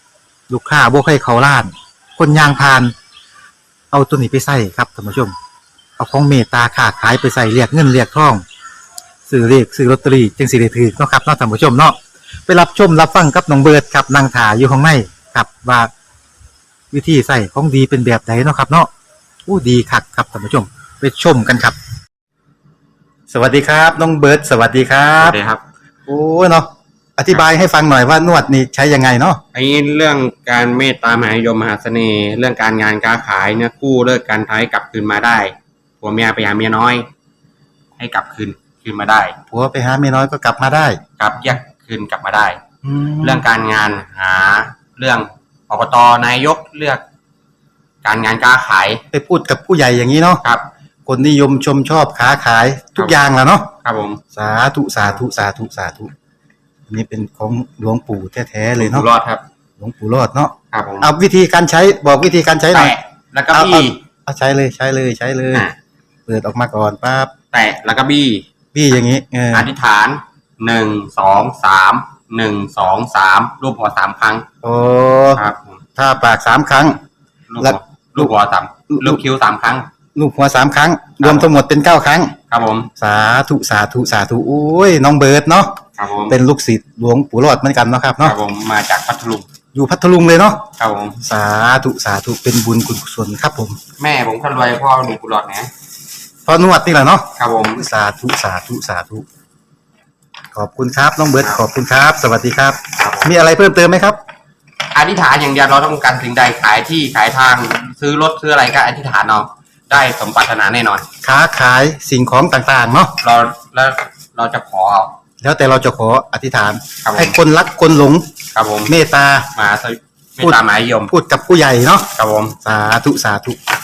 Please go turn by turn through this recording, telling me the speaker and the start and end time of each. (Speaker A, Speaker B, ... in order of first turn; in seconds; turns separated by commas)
Speaker A: 0.5-2.9, Speaker A: 3.9-5.3, Speaker A: 6.0-8.4, Speaker A: 9.3-15.9, Speaker A: 16.9-18.9, Speaker A: 19.4-21.8, Speaker A: 23.3-25.4, Speaker B: 25.2-25.6, Speaker A: 26.1-29.4, Speaker B: 29.5-37.1, Speaker B: 38.0-39.4, Speaker A: 39.5-41.0, Speaker B: 41.2-42.6, Speaker A: 42.8-43.4, Speaker B: 43.2-47.0, Speaker B: 48.0-49.0, Speaker A: 49.1-50.4, Speaker A: 51.0-53.7, Speaker B: 53.8-54.2, Speaker A: 54.3-56.1, Speaker A: 56.9-59.1, Speaker B: 58.8-59.4, Speaker A: 59.8-63.0, Speaker B: 60.7-61.1, Speaker B: 62.7-64.0, Speaker A: 63.5-65.7, Speaker A: 66.3-67.3, Speaker B: 67.5-68.4, Speaker A: 68.7-69.7, Speaker B: 69.5-74.5, Speaker A: 74.6-75.4, Speaker B: 75.3-75.8, Speaker A: 75.9-77.0, Speaker B: 77.5-79.9, Speaker A: 77.6-78.3, Speaker A: 78.9-79.2, Speaker A: 80.1-82.3, Speaker B: 81.2-81.5, Speaker B: 82.5-82.9, Speaker A: 82.9-85.8, Speaker B: 86.0-86.4, Speaker A: 86.3-88.4, Speaker B: 88.2-89.5, Speaker A: 89.7-90.7, Speaker B: 90.8-91.2, Speaker A: 91.2-93.8, Speaker B: 94.0-95.7, Speaker A: 96.4-99.2, Speaker B: 97.4-97.8, Speaker A: 100.5-104.2, Speaker B: 102.9-103.3, Speaker B: 104.9-111.0, Speaker A: 111.2-113.2, Speaker B: 113.2-115.2, Speaker A: 115.4-118.3, Speaker B: 117.0-117.3, Speaker B: 118.5-118.9, Speaker A: 118.9-119.5, Speaker B: 119.5-121.1, Speaker A: 120.4-123.6, Speaker B: 122.1-122.6